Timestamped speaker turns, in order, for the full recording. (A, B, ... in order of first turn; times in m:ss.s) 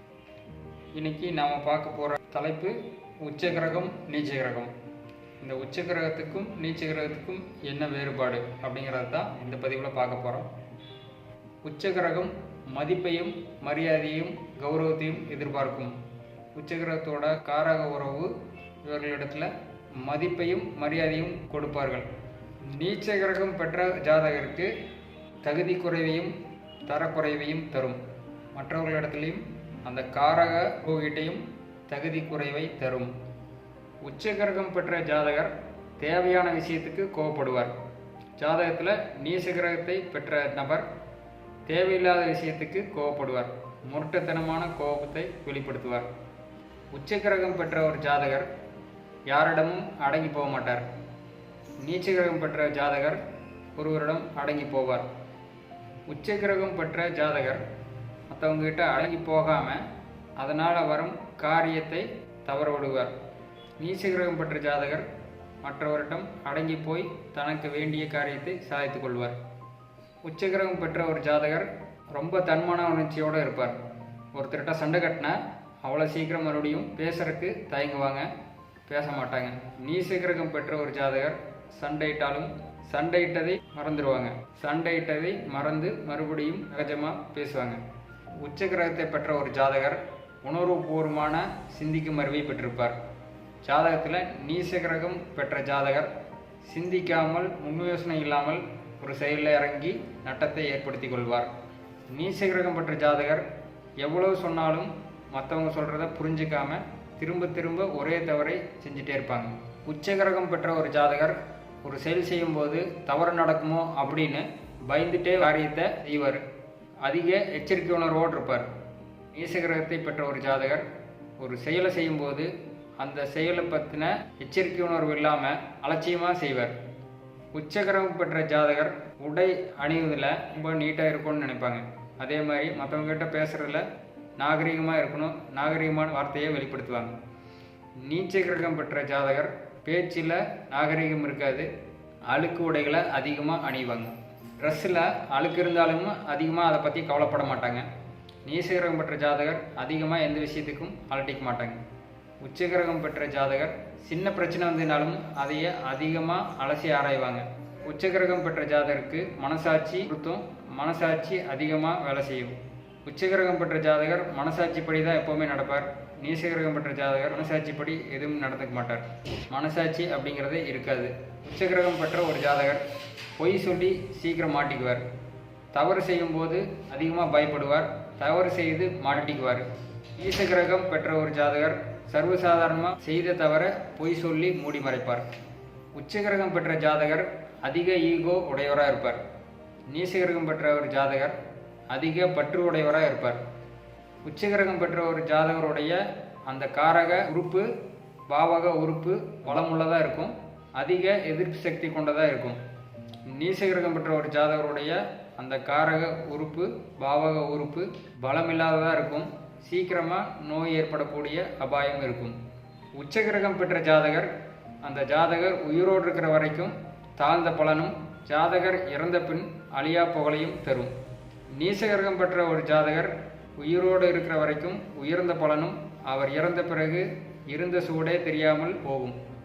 0:00.9-0:04.7 A
0:05.4-0:10.5 A
0:11.6-0:16.0 A
0:16.5-0:18.3 A
0:18.8-0:22.1 A
0:22.7-0:24.7 A
0:25.4-0:26.3 A
0:26.9-0:28.0 A
0:28.5-0:33.1 A
0:34.0-0:37.8 A
0:38.4-0:40.9 A
0:41.7-0:46.1 A
0:46.9-0:48.5 A
0:49.3-0:50.9 A
0:51.8-0:53.2 A
0:53.8-0:55.1 A
0:56.1-0:57.6 A
0:58.3-0:59.8 A
1:00.4-1:03.2 A
1:03.8-1:05.1 A
1:05.6-1:09.4 A
1:10.2-1:13.8 A
1:14.3-1:18.3 A
1:18.9-1:27.8 A
1:28.4-1:33.0 A
1:33.6-1:36.1 A
1:36.6-1:41.5 A
1:42.1-1:43.5 A
1:44.0-1:56.5 A
1:57.0-1:58.7 A
1:59.3-2:00.9 A
2:01.4-2:06.8 A
2:07.5-2:13.9 A
2:14.4-2:17.1 A
2:18.0-2:21.7 A
2:22.3-2:27.9 A
2:28.4-2:31.8 A
2:32.4-2:52.8 A
2:53.4-2:55.0 A
2:55.7-3:05.3 A
3:05.9-3:09.2 A
3:09.9-3:11.4 A
3:11.9-3:13.4 A
3:14.2-3:17.7 A
3:18.3-3:22.6 A
3:23.3-3:32.4 A
3:33.0-3:40.9 A
3:41.6-3:49.2 A